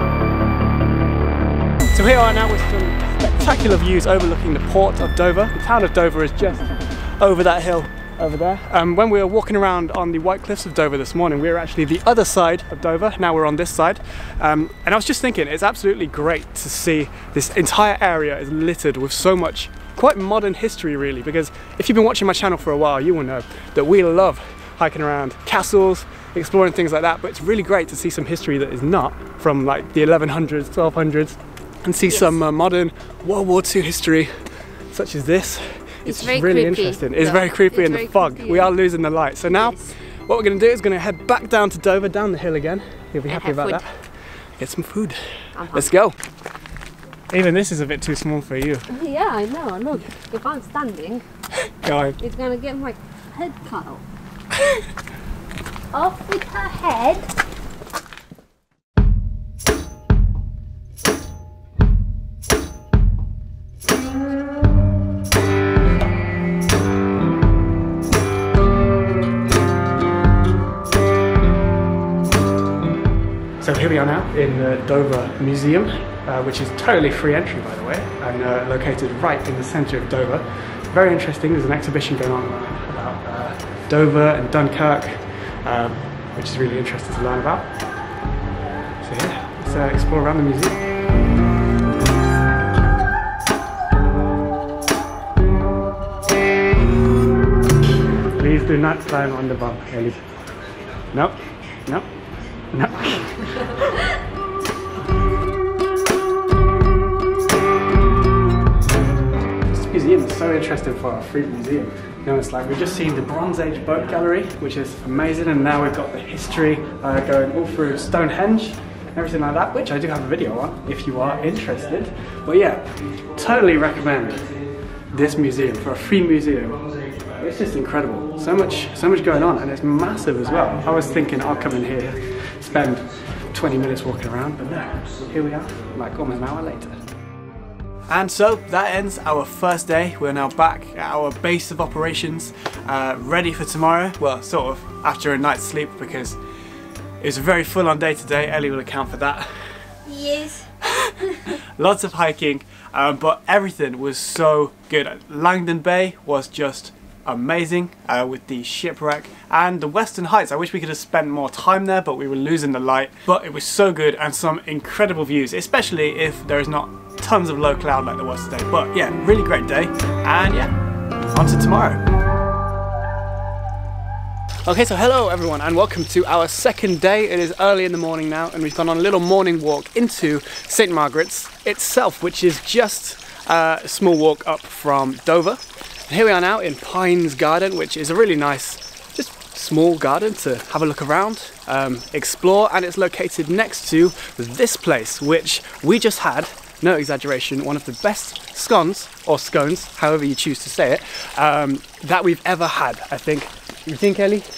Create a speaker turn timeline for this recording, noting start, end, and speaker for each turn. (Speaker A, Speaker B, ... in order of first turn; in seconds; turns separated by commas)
Speaker A: 1.9-34.3, Speaker B: 32.0-32.4, Speaker A: 34.9-44.1, Speaker B: 36.0-38.7, Speaker B: 39.5-39.9, Speaker B: 43.3-43.8, Speaker A: 44.6-45.2, Speaker B: 45.5-45.9, Speaker A: 45.7-46.2, Speaker A: 47.3-48.9, Speaker B: 48.9-51.2, Speaker A: 51.7-52.2, Speaker B: 52.2-54.0, Speaker B: 55.9-57.3, Speaker A: 73.6-87.7, Speaker A: 89.0-90.8, Speaker A: 98.3-100.2, Speaker A: 101.1-102.1, Speaker A: 102.7-103.7, Speaker A: 109.7-124.6, Speaker A: 125.1-137.0, Speaker A: 138.1-146.4, Speaker A: 147.2-149.5, Speaker B: 150.1-150.7, Speaker A: 150.8-170.7, Speaker A: 171.3-172.0, Speaker A: 174.7-204.5